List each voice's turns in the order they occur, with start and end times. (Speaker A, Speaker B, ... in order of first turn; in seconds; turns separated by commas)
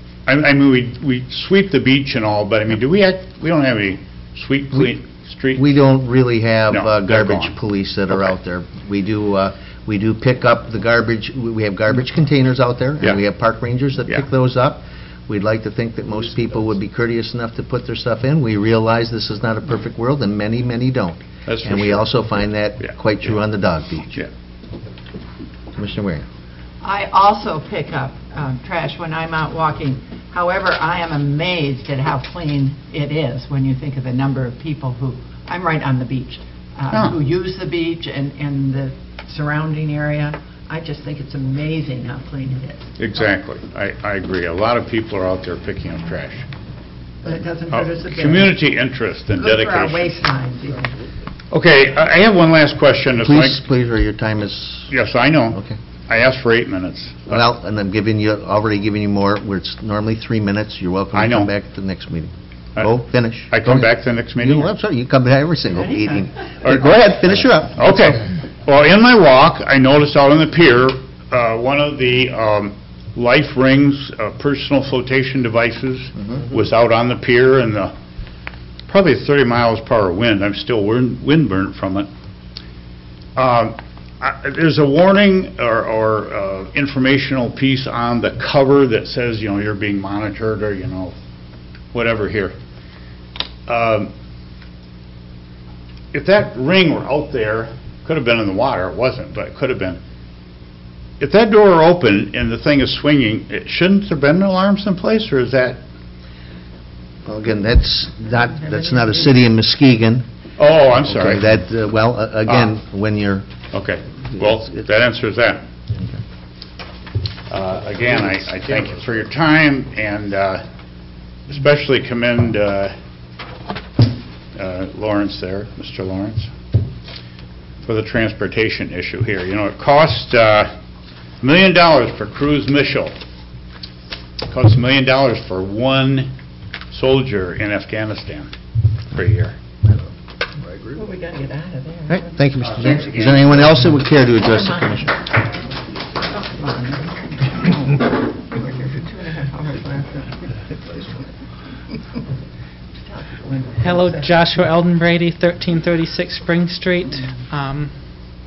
Speaker A: 0.3-5.7, Speaker B: 5.5-24.2, Speaker A: 6.7-7.5, Speaker A: 21.5-22.2, Speaker B: 25.8-26.3, Speaker C: 26.8-42.9, Speaker A: 43.0-46.5, Speaker C: 47.2-48.6, Speaker A: 47.7-50.1, Speaker C: 49.3-51.0, Speaker A: 51.5-53.6, Speaker B: 53.2-54.9, Speaker A: 54.9-57.4, Speaker B: 57.3-68.2, Speaker A: 61.1-61.5, Speaker A: 63.5-64.7, Speaker A: 66.6-77.9, Speaker A: 78.9-82.1, Speaker A: 83.4-91.1, Speaker A: 91.9-92.5, Speaker A: 93.7-94.1, Speaker A: 96.1-100.0, Speaker A: 101.2-105.8, Speaker B: 107.2-110.2, Speaker A: 110.6-111.6, Speaker B: 111.1-113.5, Speaker A: 113.7-115.7, Speaker A: 117.5-120.6, Speaker A: 121.5-122.9, Speaker A: 124.5-126.5, Speaker A: 127.8-130.7, Speaker A: 131.4-133.1, Speaker A: 134.5-136.3, Speaker A: 136.9-138.5, Speaker A: 139.1-139.6, Speaker C: 140.9-142.4, Speaker B: 142.1-145.2, Speaker C: 144.5-145.0, Speaker C: 146.2-151.2, Speaker C: 153.0-154.4, Speaker D: 153.8-158.2